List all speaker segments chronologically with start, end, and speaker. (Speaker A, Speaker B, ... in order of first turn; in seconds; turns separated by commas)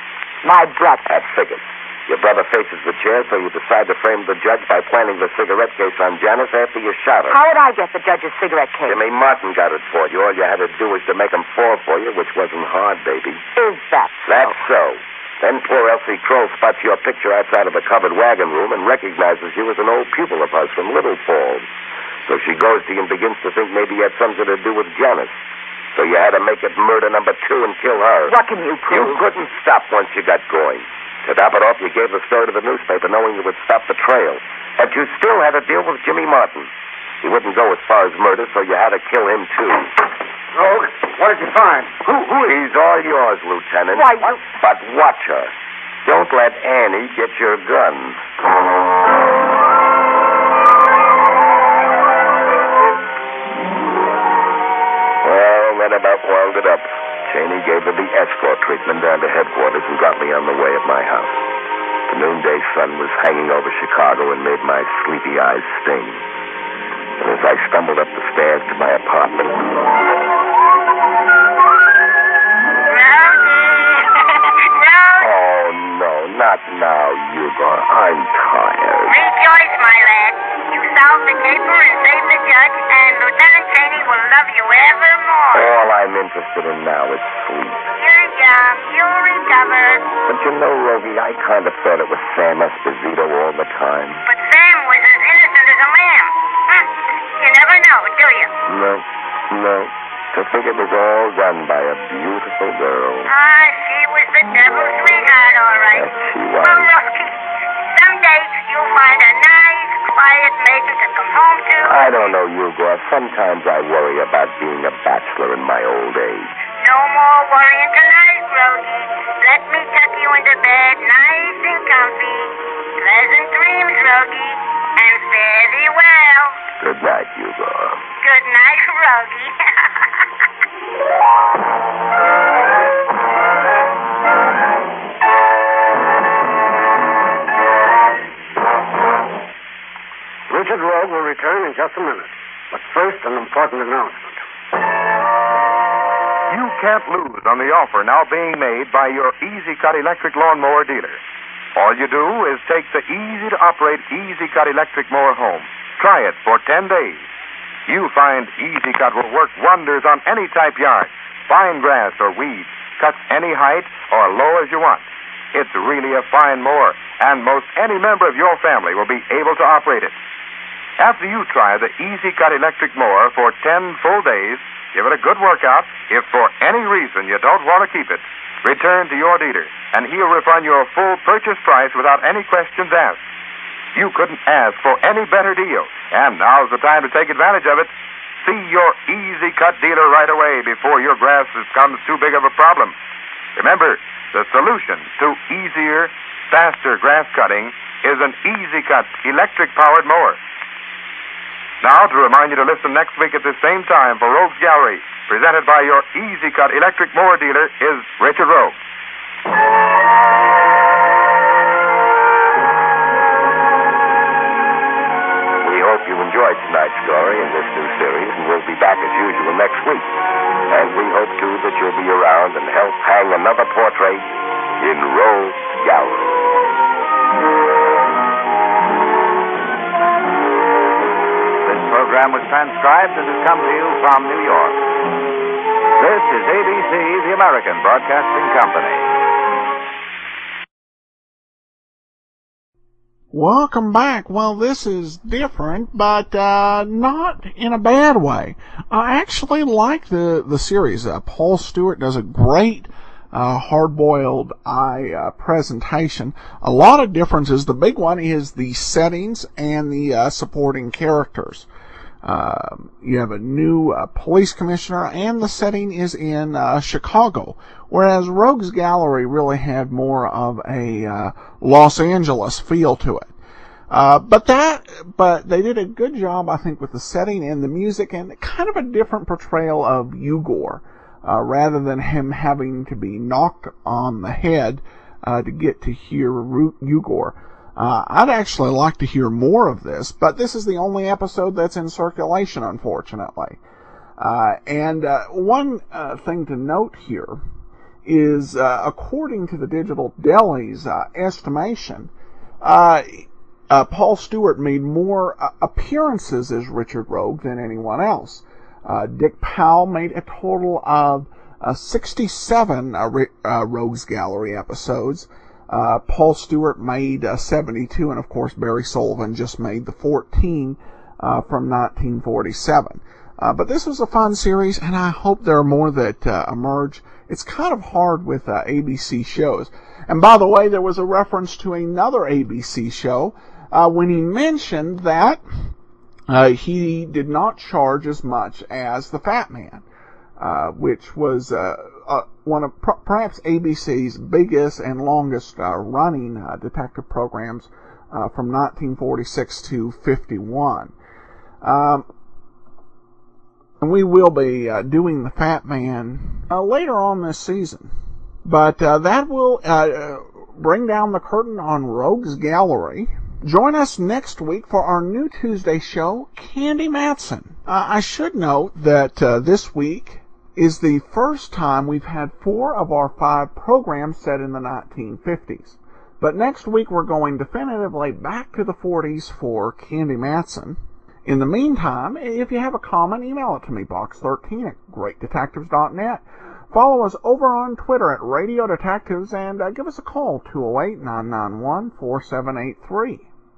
Speaker A: 0.4-1.1, Speaker B: 1.1-7.4, Speaker A: 7.3-9.0, Speaker B: 8.8-13.4, Speaker A: 13.6-14.6, Speaker B: 14.3-21.7, Speaker B: 22.3-25.4, Speaker B: 25.9-28.4, Speaker A: 28.3-29.2, Speaker B: 28.9-36.7, Speaker B: 37.2-39.9, Speaker C: 40.5-42.6, Speaker B: 42.4-45.5, Speaker A: 43.9-44.5, Speaker B: 46.0-48.2, Speaker B: 55.2-61.4, Speaker B: 62.1-66.2, Speaker B: 67.2-69.6, Speaker D: 72.8-75.3, Speaker B: 75.2-79.2, Speaker D: 79.0-85.7, Speaker B: 85.5-87.9, Speaker D: 87.9-90.0, Speaker B: 90.2-94.2, Speaker D: 94.3-96.9, Speaker D: 97.4-98.5, Speaker B: 98.7-103.3, Speaker D: 103.3-112.3, Speaker B: 105.9-106.9, Speaker B: 111.8-116.7, Speaker D: 116.8-126.6, Speaker B: 126.8-128.0, Speaker D: 128.2-130.2, Speaker C: 140.5-144.4, Speaker E: 146.5-151.2, Speaker E: 151.7-157.2, Speaker E: 157.9-170.1, Speaker E: 171.0-183.2, Speaker E: 183.9-187.9, Speaker E: 188.4-192.9, Speaker E: 193.6-200.4, Speaker E: 201.8-208.8, Speaker B: 215.6-220.1, Speaker B: 220.7-226.4, Speaker F: 231.6-234.8, Speaker F: 236.0-239.1, Speaker G: 243.3-261.7, Speaker G: 262.2-273.3, Speaker G: 273.9-293.6, Speaker G: 294.2-297.4, Speaker G: 298.0-302.1, Speaker G: 302.6-335.7, Speaker G: 336.3-339.8, Speaker G: 340.4-350.9, Speaker G: 351.6-352.1, Speaker G: 353.8-357.9, Speaker G: 358.4-393.3